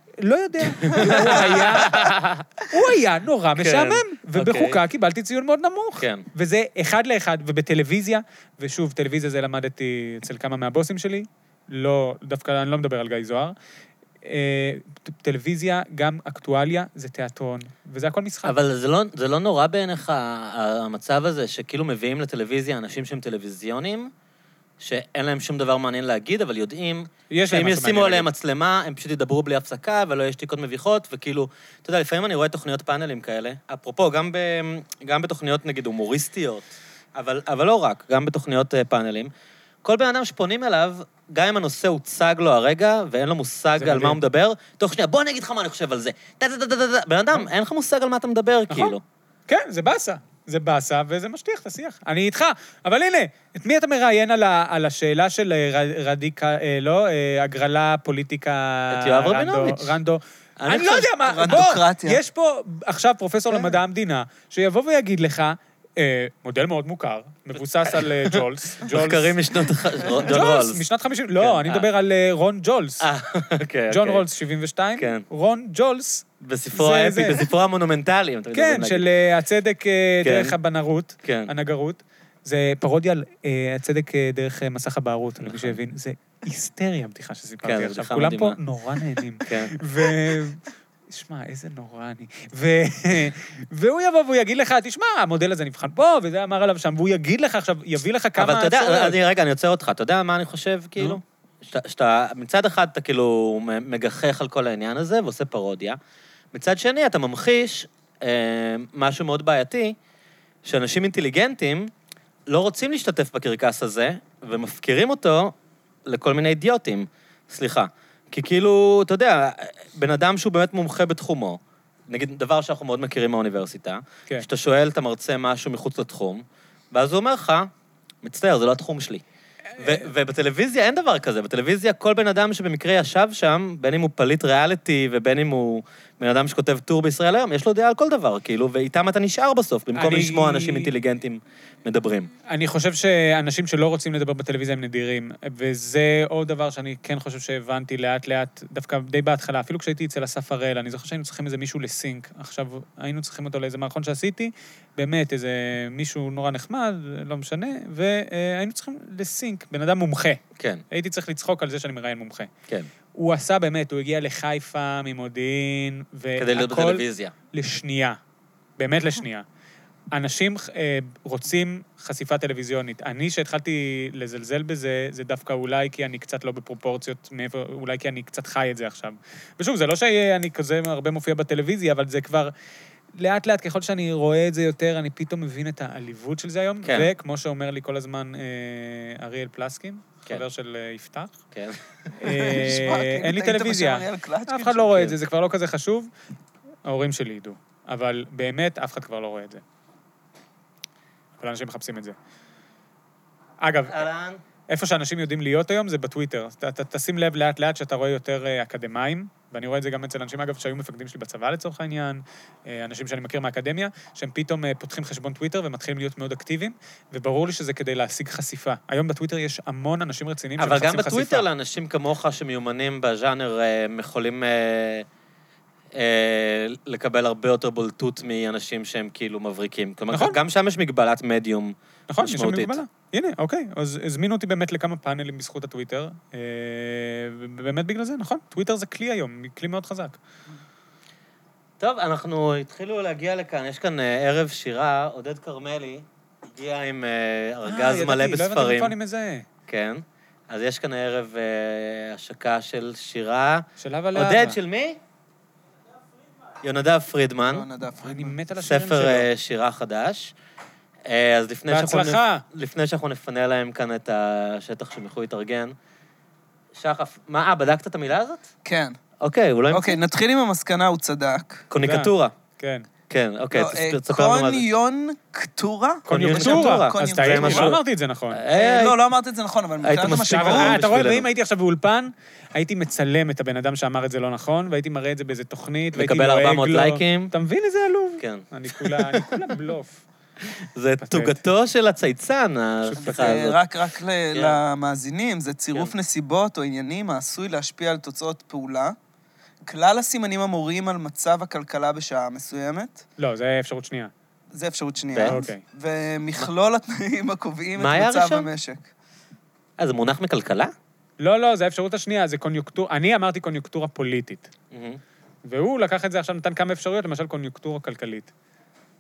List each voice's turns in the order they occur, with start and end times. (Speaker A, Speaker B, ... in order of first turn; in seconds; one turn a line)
Speaker A: 0.2-13.6
Speaker B: 0.6-2.5
Speaker B: 3.6-4.8
Speaker B: 6.0-6.3
Speaker A: 14.2-18.6
Speaker B: 18.4-24.1
Speaker B: 24.8-39.3
Speaker A: 27.3-28.3
Speaker B: 39.8-49.0
Speaker A: 43.8-44.2
Speaker A: 48.7-49.0
Speaker A: 49.5-69.4
Speaker B: 58.9-60.0
Speaker B: 60.6-61.4
Speaker C: 61.2-62.2
Speaker B: 67.8-70.8
Speaker A: 70.2-73.1
Speaker B: 71.4-71.9
Speaker B: 73.0-74.2
Speaker A: 73.9-77.5
Speaker B: 75.0-75.3
Speaker B: 76.4-79.1
Speaker A: 78.5-99.2
Speaker B: 80.2-80.6
Speaker B: 81.2-81.5
Speaker B: 85.4-85.8
Speaker B: 87.6-88.6
Speaker B: 89.4-89.8
Speaker B: 98.4-106.0
Speaker B: 106.5-110.0
Speaker B: 110.7-111.9
Speaker B: 112.5-115.5
Speaker B: 116.1-127.7
Speaker B: 128.2-129.2
Speaker A: 129.8-130.1
Speaker B: 129.8-142.3
Speaker A: 139.9-140.9
Speaker A: 142.5-162.5
Speaker B: 160.6-160.8
Speaker A: 163.1-168.2
Speaker B: 166.4-167.3
Speaker A: 168.8-169.4
Speaker A: 170.1-182.5
Speaker A: 183.1-191.4
Speaker B: 186.8-187.1
Speaker B: 191.5-191.8
Speaker A: 192.2-196.1
Speaker C: 192.2-195.1
Speaker A: 196.8-199.6
Speaker A: 201.4-202.2
Speaker A: 203.6-204.0
Speaker B: 203.9-204.4
Speaker A: 204.7-221.5
Speaker B: 220.6-225.1
Speaker B: 225.9-232.8
Speaker A: 230.1-230.4
Speaker A: 232.1-240.2
Speaker B: 241.8-248.9
Speaker A: 247.7-249.5
Speaker B: 249.7-255.0
Speaker A: 253.8-254.6
Speaker B: 256.6-257.7
Speaker C: 257.5-258.4
Speaker A: 258.0-259.3
Speaker B: 258.6-260.3
Speaker B: 261.1-265.8
Speaker A: 261.7-262.4
Speaker B: 266.8-268.5
Speaker C: 268.6-269.0
Speaker B: 269.2-270.0
Speaker C: 269.7-271.7
Speaker B: 271.7-272.3
Speaker A: 271.8-272.9
Speaker B: 273.1-274.7
Speaker C: 273.5-277.8
Speaker B: 276.1-277.8
Speaker A: 276.1-278.4
Speaker B: 278.3-279.0
Speaker C: 278.5-280.8
Speaker B: 279.8-281.3
Speaker A: 280.1-290.0
Speaker B: 285.9-287.3
Speaker B: 288.2-289.4
Speaker B: 290.4-293.6
Speaker A: 291.0-291.4
Speaker A: 292.9-293.5
Speaker C: 293.0-299.0
Speaker B: 294.3-294.6
Speaker C: 299.7-303.1
Speaker A: 303.2-304.1
Speaker C: 304.5-308.9
Speaker B: 305.1-305.4
Speaker A: 305.3-305.6
Speaker B: 307.8-308.5
Speaker B: 309.8-310.7
Speaker A: 311.2-314.5
Speaker B: 314.7-315.0
Speaker A: 315.4-318.3